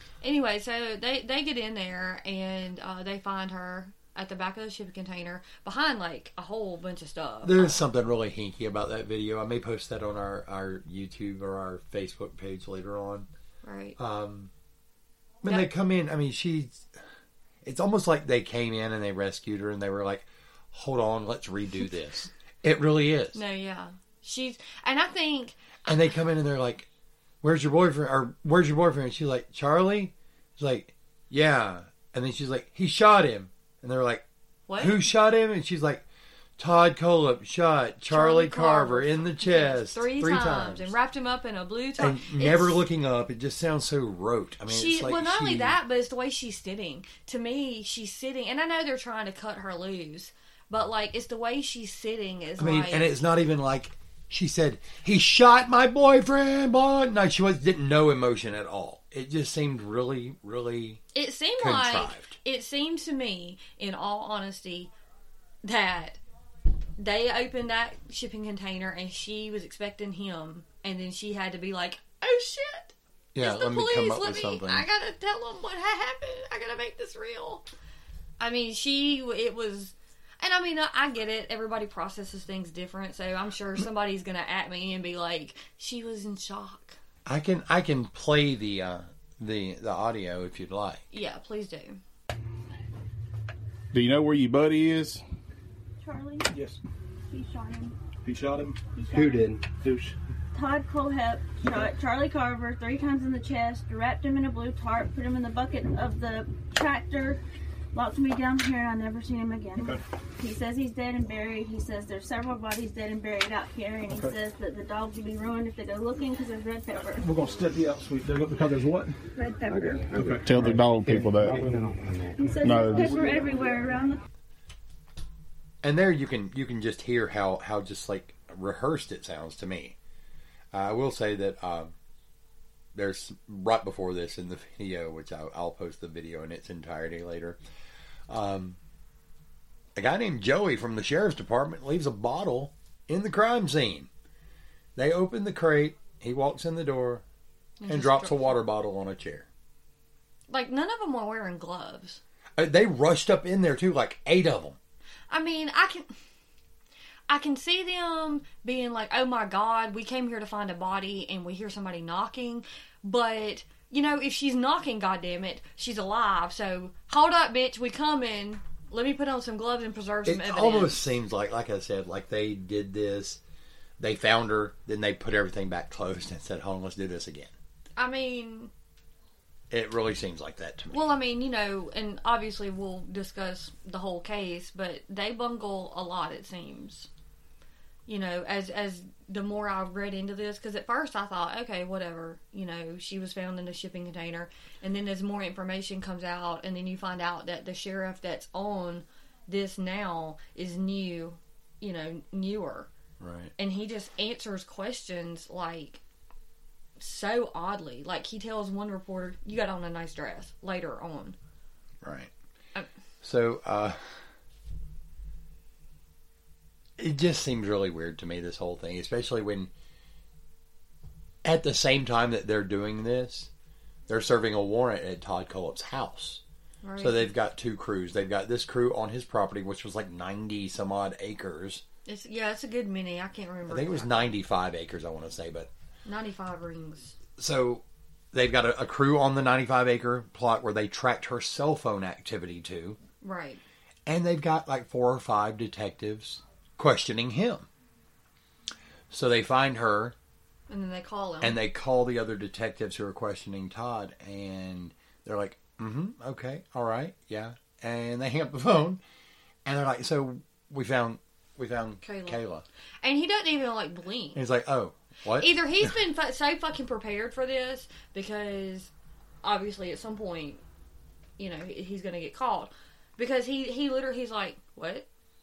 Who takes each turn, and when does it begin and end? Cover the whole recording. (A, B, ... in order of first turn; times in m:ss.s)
0:00.2-0:07.8 A
0:07.4-0:13.3 B
0:13.6-0:14.0 A
0:14.0-0:14.5 B
0:15.4-0:16.9 B
0:17.6-0:23.4 B
0:23.3-0:26.0 A
0:25.9-0:26.9 B
0:27.4-0:34.3 B
0:34.7-0:35.1 A
0:34.8-0:36.1 B
0:36.6-0:41.0 B
0:38.1-0:42.8 A
0:42.0-0:45.8 B
0:44.7-0:53.1 A
0:52.6-1:01.0 B
1:01.1-1:04.9 A
1:01.6-1:02.4 B
1:05.6-1:06.2 A
1:07.0-1:17.7 A
1:13.4-1:14.9 B
1:18.4-1:27.0 A
1:27.3-1:31.0 B
1:31.1-1:32.0 A
1:33.9-1:35.2 C
1:36.0-1:36.5 D
1:36.5-1:36.8 E
1:37.3-1:38.0 D
1:38.2-1:40.2 E
1:39.0-1:39.5 D
1:40.5-1:47.4 D
1:47.9-1:57.2 D
1:57.2-1:59.2 E
1:59.4-2:00.1 D
2:00.0-2:01.1 E
2:00.4-2:01.7 C
2:02.4-2:04.2 D
2:02.6-2:03.1 C
2:05.8-2:10.0 B
2:10.7-2:12.0 B
2:13.0-2:17.6 B
2:18.3-2:18.8 B
2:20.0-2:24.1 B
2:25.0-2:27.2 B
2:27.8-2:28.6 A
2:27.9-2:29.5 B
2:30.5-2:32.2 A
2:32.6-2:34.8 B
2:35.3-2:36.1 A
2:37.3-2:51.1 A
2:50.2-2:53.4 B
2:54.0-2:57.5 B
2:58.0-2:58.7 A
2:59.7-3:01.1 B
3:00.9-3:07.1 A
3:08.1-3:22.9 A
3:23.2-3:23.5 B
3:23.6-3:26.0 A
3:27.0-3:31.4 A
3:32.0-3:32.3 B
3:33.2-3:34.3 B
3:37.0-3:39.7 B
3:41.4-3:43.5 B
3:44.1-3:46.4 B
3:46.8-3:47.3 A
3:47.0-3:51.8 B
3:52.1-3:54.4 A
3:53.7-3:55.7 B
3:56.1-3:57.2 A
3:57.4-4:03.0 B
4:03.2-4:03.6 A
4:04.1-4:07.7 B
4:09.1-4:10.2 B
4:10.7-4:11.6 A
4:11.4-4:19.0 B
4:19.6-4:22.6 B
4:22.0-4:22.4 A
4:23.0-4:24.4 A
4:24.4-4:26.0 B
4:25.4-4:28.9 A
4:29.4-4:30.6 A
4:31.4-4:35.1 A